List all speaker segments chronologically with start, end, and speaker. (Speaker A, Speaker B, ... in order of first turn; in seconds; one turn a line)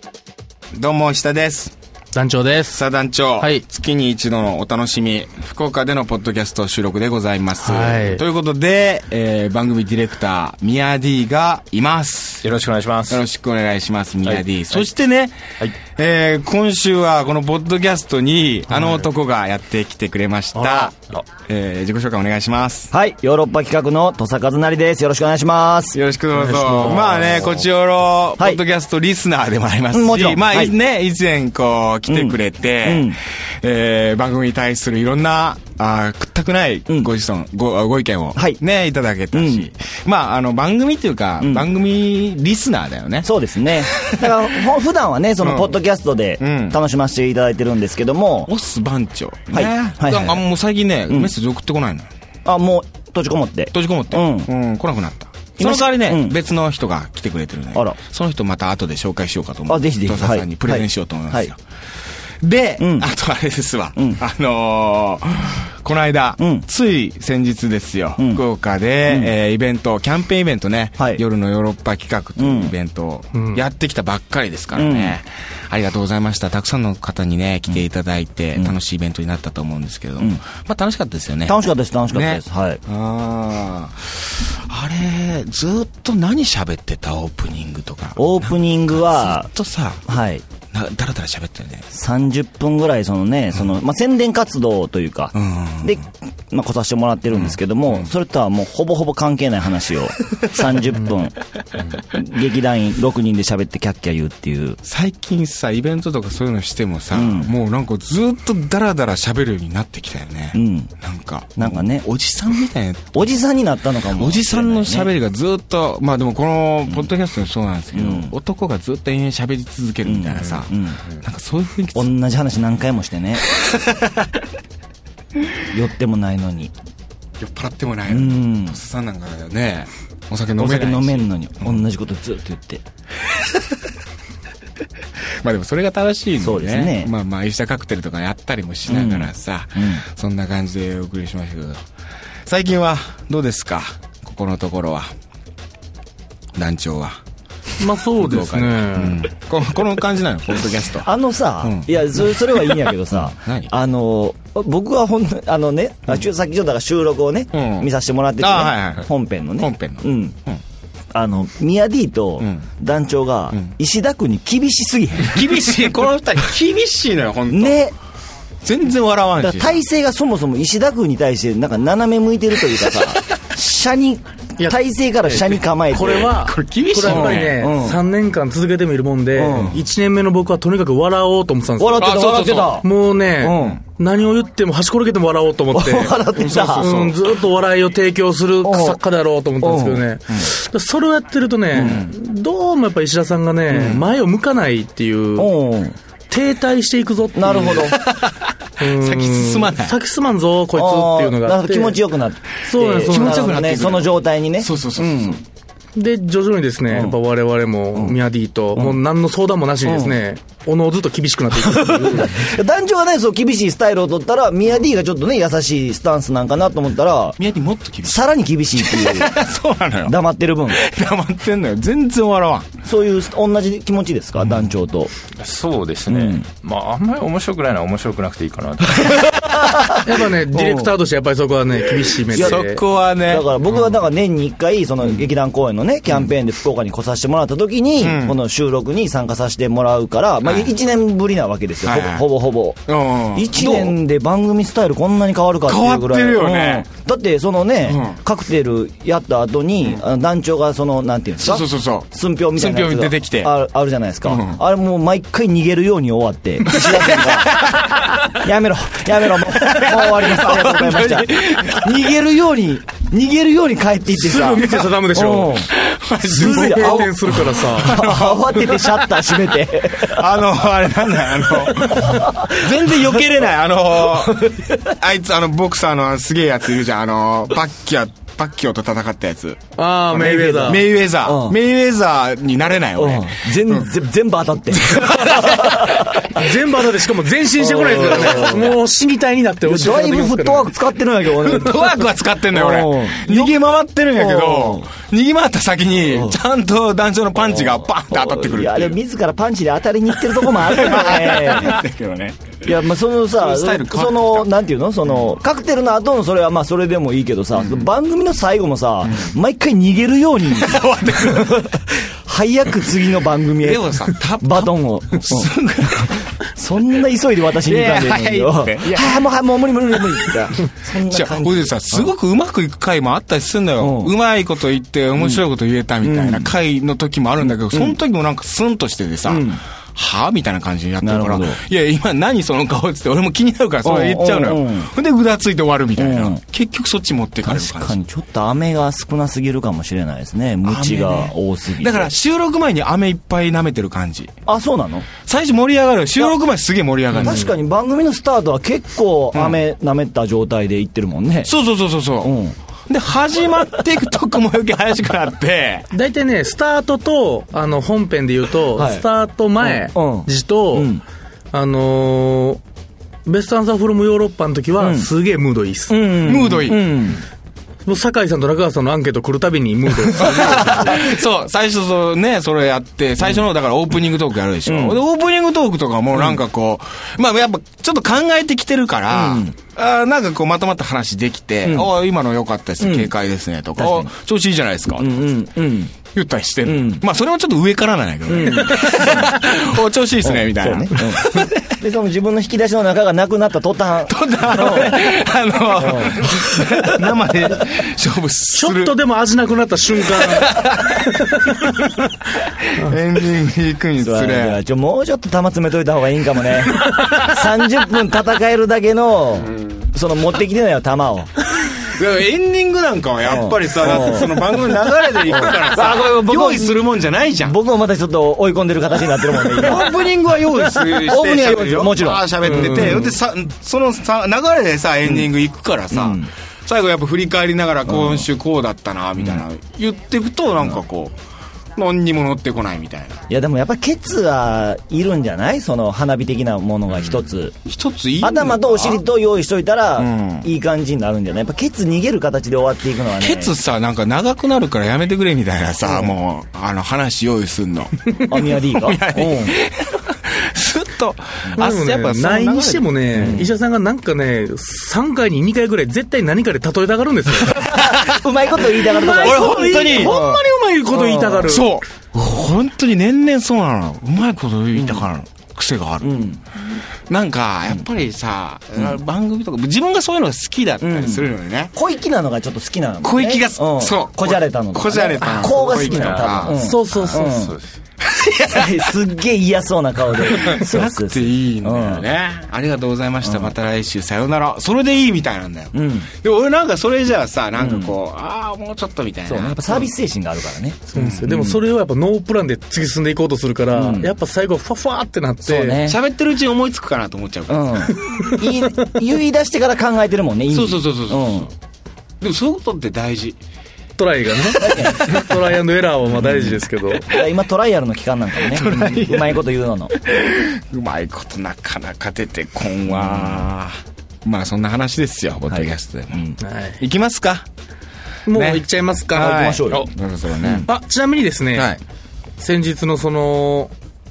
Speaker A: 0.7-1.7
Speaker B: 2.1-2.8
Speaker A: 2.7-12.4
Speaker B: 7.6-8.2
Speaker C: 12.4-13.2
Speaker A: 13.1-15.4
Speaker C: 14.3-14.8
Speaker A: 15.9-22.9
Speaker B: 18.7-19.0
Speaker B: 20.6-20.9
Speaker D: 22.9-26.0
Speaker A: 25.9-43.3
Speaker B: 26.4-27.5
Speaker D: 29.9-30.7
Speaker D: 32.1-33.2
Speaker D: 38.4-38.6
Speaker D: 39.3-39.7
Speaker D: 41.4-41.7
Speaker D: 43.2-48.5
Speaker A: 43.9-44.2
Speaker A: 45.4-45.8
Speaker A: 46.4-46.8
Speaker A: 48.5-52.1
Speaker D: 49.5-50.5
Speaker D: 52.5-54.5
Speaker A: 53.7-61.6
Speaker D: 55.6-56.4
Speaker D: 59.7-61.5
Speaker A: 62.4-81.6
Speaker D: 62.8-63.1
Speaker D: 64.0-64.2
Speaker D: 66.4-66.7
Speaker D: 72.4-72.7
Speaker B: 73.3-73.6
Speaker D: 74.8-75.2
Speaker D: 81.5-82.8
Speaker A: 82.1-90.0
Speaker D: 88.2-89.5
Speaker D: 90.1-90.5
Speaker A: 90.7-91.9
Speaker D: 91.9-101.3
Speaker A: 95.3-96.0
Speaker A: 97.3-98.1
Speaker A: 100.4-100.9
Speaker D: 102.1-104.8
Speaker A: 104.8-113.3
Speaker D: 107.1-107.5
Speaker D: 110.5-110.9
Speaker D: 111.6-112.1
Speaker D: 113.1-115.1
Speaker A: 114.1-122.1
Speaker D: 117.9-118.3
Speaker D: 120.0-121.0
Speaker D: 122.0-123.4
Speaker A: 123.6-124.3
Speaker D: 125.7-126.7
Speaker A: 127.4-131.8
Speaker D: 128.1-128.8
Speaker D: 130.6-132.8
Speaker A: 135.4-141.8
Speaker D: 136.4-137.1
Speaker D: 138.9-140.0
Speaker A: 142.5-145.1
Speaker A: 146.6-147.2
Speaker B: 147.8-149.2
Speaker A: 148.2-151.1
Speaker D: 151.0-160.4
Speaker A: 151.6-152.4
Speaker A: 153.1-153.7
Speaker A: 157.5-157.9
Speaker A: 158.4-159.1
Speaker A: 159.6-160.6
Speaker D: 161.1-165.5
Speaker A: 162.4-162.7
Speaker A: 165.2-167.8
Speaker D: 167.5-167.9
Speaker A: 168.6-169.8
Speaker D: 169.4-176.4
Speaker B: 174.6-195.6
Speaker A: 176.2-177.7
Speaker D: 177.0-178.0
Speaker D: 179.3-179.8
Speaker A: 179.5-179.8
Speaker D: 181.8-183.8
Speaker A: 182.0-182.8
Speaker D: 185.7-187.0
Speaker A: 186.3-187.2
Speaker D: 188.6-189.0
Speaker D: 189.6-190.1
Speaker D: 191.7-192.1
Speaker A: 191.8-192.1
Speaker D: 193.7-194.0
Speaker D: 195.4-196.0
Speaker B: 196.3-198.0
Speaker D: 197.3-198.0
Speaker A: 198.0-200.0
Speaker B: 198.8-202.0
Speaker D: 200.7-205.4
Speaker B: 202.7-203.5
Speaker A: 203.0-205.4
Speaker B: 206.0-212.5
Speaker D: 206.9-207.2
Speaker D: 207.9-208.2
Speaker D: 209.8-210.2
Speaker D: 211.5-217.4
Speaker A: 217.4-220.2
Speaker D: 218.1-219.3
Speaker D: 220.1-220.8
Speaker A: 220.7-222.7
Speaker D: 222.8-225.1
Speaker C: 225.3-229.3
Speaker D: 226.1-226.4
Speaker D: 229.0-230.9
Speaker B: 230.1-232.8
Speaker D: 232.3-232.6
Speaker A: 232.3-233.5
Speaker D: 233.2-257.6
Speaker A: 238.0-238.4
Speaker A: 240.4-240.7
Speaker A: 241.8-242.2
Speaker A: 242.9-244.0
Speaker A: 245.7-246.9
Speaker A: 247.9-248.2
Speaker A: 251.4-253.5
Speaker A: 254.3-254.6
Speaker A: 256.7-258.1
Speaker D: 258.4-265.7
Speaker A: 259.5-262.2
Speaker B: 264.1-265.6
Speaker A: 264.6-264.9
Speaker A: 265.7-268.9
Speaker D: 266.3-267.1
Speaker B: 266.3-268.1
Speaker D: 267.8-270.2
Speaker A: 269.9-279.6
Speaker D: 271.5-272.7
Speaker D: 274.3-274.8
Speaker B: 279.8-280.8
Speaker D: 280.1-281.6
Speaker A: 280.6-283.9
Speaker D: 283.0-286.5
Speaker A: 284.8-286.1
Speaker B: 286.3-290.7
Speaker D: 287.6-288.8
Speaker A: 288.4-288.7
Speaker D: 289.6-293.6
Speaker A: 291.4-299.0
Speaker D: 294.1-294.9
Speaker D: 296.1-296.4
Speaker D: 298.1-301.8
Speaker A: 300.6-302.6
Speaker D: 302.6-322.1
Speaker A: 303.3-304.5
Speaker A: 307.6-307.9
Speaker A: 309.1-309.3
Speaker A: 310.6-311.7
Speaker A: 313.6-316.2
Speaker A: 317.6-319.1
Speaker A: 321.1-338.0
Speaker D: 323.8-324.1
Speaker D: 326.0-326.5
Speaker D: 327.5-328.0
Speaker D: 329.3-329.6
Speaker D: 331.0-331.6
Speaker D: 333.8-334.9
Speaker D: 336.0-336.4
Speaker D: 337.4-342.1
Speaker A: 340.6-344.3
Speaker D: 344.5-345.1
Speaker A: 345.2-347.5
Speaker D: 347.1-351.5
Speaker A: 349.3-349.6
Speaker A: 351.4-355.9
Speaker D: 352.2-352.6
Speaker B: 355.9-361.0
Speaker D: 358.7-359.1
Speaker D: 359.6-361.0
Speaker B: 361.5-362.6
Speaker B: 363.3-366.0
Speaker D: 364.8-365.1
Speaker D: 365.9-367.2
Speaker A: 366.2-366.9
Speaker B: 367.9-371.1
Speaker A: 370.1-385.1
Speaker D: 374.7-375.0
Speaker D: 379.1-379.5
Speaker D: 381.6-381.9
Speaker D: 382.8-383.1
Speaker D: 383.8-384.1
Speaker D: 385.0-385.9
Speaker A: 386.1-391.6
Speaker D: 386.6-387.0
Speaker D: 388.3-389.3
Speaker B: 388.4-389.2
Speaker D: 390.2-395.1
Speaker A: 394.1-399.0
Speaker D: 395.8-397.1
Speaker B: 398.6-401.9
Speaker A: 400.1-401.1
Speaker A: 402.6-404.6
Speaker D: 404.0-411.3
Speaker A: 411.8-417.6
Speaker D: 413.2-416.9
Speaker D: 417.4-420.1
Speaker A: 419.4-431.1
Speaker D: 420.6-423.1
Speaker B: 422.4-423.1
Speaker D: 425.0-425.3
Speaker D: 425.9-426.3
Speaker D: 427.9-428.3
Speaker A: 431.8-433.2
Speaker D: 433.3-437.6
Speaker A: 437.7-439.0
Speaker D: 438.2-443.5
Speaker A: 440.0-440.5
Speaker A: 443.2-448.0
Speaker D: 445.9-446.1
Speaker D: 448.3-449.6
Speaker A: 448.5-453.5
Speaker B: 451.6-457.7
Speaker D: 453.1-453.5
Speaker D: 457.5-461.6
Speaker A: 457.7-458.2
Speaker A: 458.8-460.2
Speaker B: 458.9-461.7
Speaker A: 461.5-466.2
Speaker D: 464.8-465.1
Speaker D: 466.0-466.4
Speaker A: 467.1-471.7
Speaker D: 470.8-477.6
Speaker A: 473.0-477.1
Speaker B: 475.4-477.5
Speaker C: 475.9-476.2
Speaker C: 477.2-477.6
Speaker A: 478.0-478.9
Speaker D: 478.5-482.1
Speaker A: 480.2-489.9
Speaker D: 483.2-483.5
Speaker D: 485.7-486.1
Speaker D: 487.6-487.9
Speaker D: 489.3-491.6
Speaker A: 490.9-491.3
Speaker B: 490.9-495.8
Speaker D: 493.7-494.1
Speaker D: 495.4-496.0
Speaker A: 495.9-497.9
Speaker D: 497.5-501.5
Speaker A: 500.5-501.5
Speaker A: 502.2-503.4
Speaker B: 504.0-507.1
Speaker D: 504.6-505.2
Speaker D: 506.2-506.5
Speaker D: 507.1-509.9
Speaker A: 508.5-509.4
Speaker A: 510.0-517.5
Speaker D: 512.9-513.5
Speaker D: 515.5-516.3
Speaker B: 516.4-516.8
Speaker B: 518.3-519.7
Speaker A: 518.3-520.7
Speaker D: 519.1-520.6
Speaker B: 520.7-521.7
Speaker A: 521.5-521.8
Speaker B: 522.4-523.7